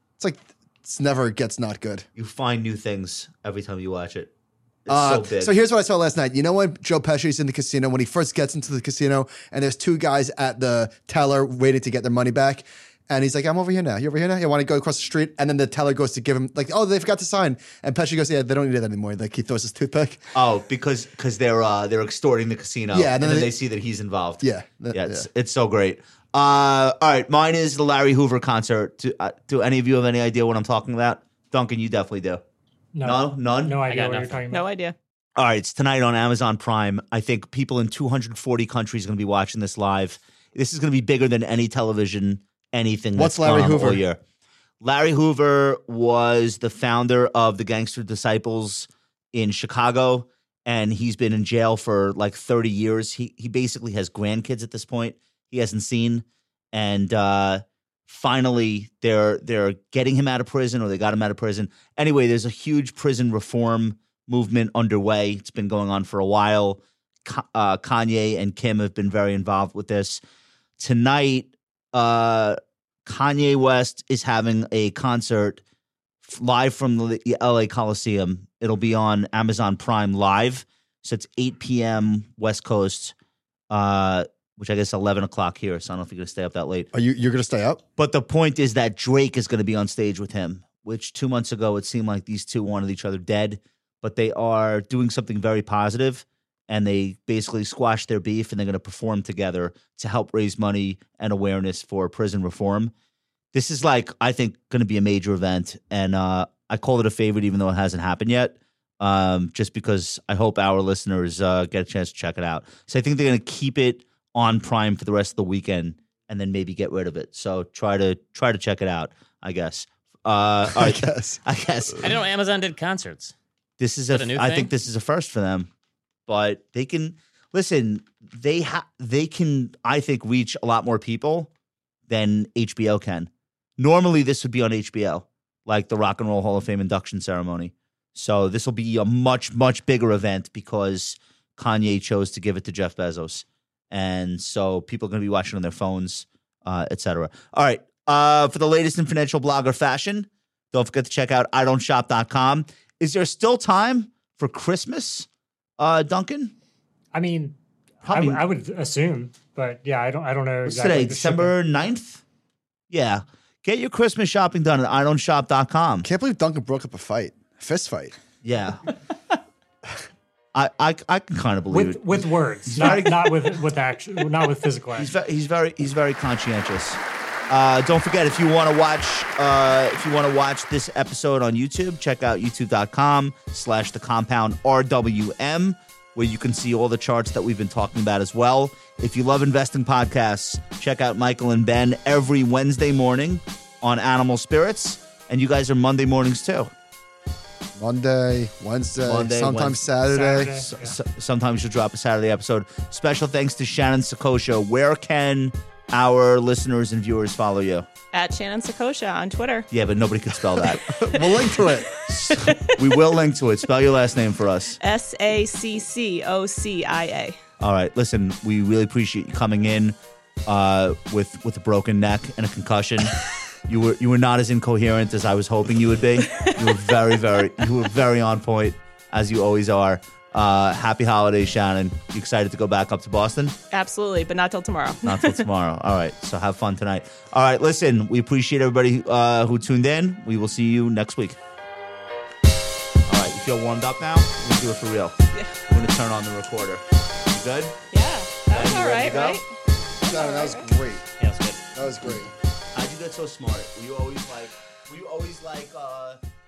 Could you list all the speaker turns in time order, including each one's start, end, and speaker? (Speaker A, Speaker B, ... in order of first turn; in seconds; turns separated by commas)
Speaker A: 0.2-2.1, Speaker B: 2.2-4.3, Speaker B: 4.9-5.5, Speaker A: 4.9-20.2, Speaker B: 20.3-32.4, Speaker A: 22.9-23.6, Speaker A: 24.4-25.3, Speaker C: 32.9-34.7, Speaker B: 33.0-33.8, Speaker D: 33.9-34.4, Speaker E: 34.5-35.0, Speaker B: 35.4-44.2, Speaker A: 43.2-44.0, Speaker B: 44.8-70.2, Speaker B: 70.8-75.6, Speaker B: 76.2-83.1, Speaker B: 83.7-86.9, Speaker A: 86.9-87.8, Speaker B: 88.0-102.9, Speaker B: 103.5-122.2, Speaker A: 120.7-121.4, Speaker D: 122.0-123.3, Speaker B: 123.8-125.7, Speaker D: 124.1-124.7, Speaker B: 126.3-131.5, Speaker B: 132.1-155.3, Speaker B: 155.8-156.5, Speaker C: 157.1-161.5, Speaker B: 158.0-158.4, Speaker B: 160.7-162.2, Speaker B: 162.9-166.1, Speaker A: 166.0-168.2, Speaker B: 168.4-168.8, Speaker B: 170.5-173.3, Speaker C: 171.7-175.1, Speaker B: 174.9-196.7, Speaker A: 197.8-200.6, Speaker B: 199.1-199.9, Speaker C: 200.1-200.9, Speaker B: 200.5-207.9, Speaker E: 208.1-209.7, Speaker B: 209.7-210.9, Speaker A: 210.9-211.9, Speaker E: 211.1-211.8, Speaker B: 212.1-214.8, Speaker E: 212.3-212.8, Speaker E: 214.8-217.4, Speaker B: 217.6-233.6, Speaker E: 233.7-235.5, Speaker B: 235.0-241.4, Speaker B: 243.1-247.8, Speaker E: 247.9-250.7, Speaker B: 248.5-249.4, Speaker A: 250.0-251.1, Speaker D: 251.2-251.7, Speaker A: 251.8-252.3, Speaker B: 252.8-256.2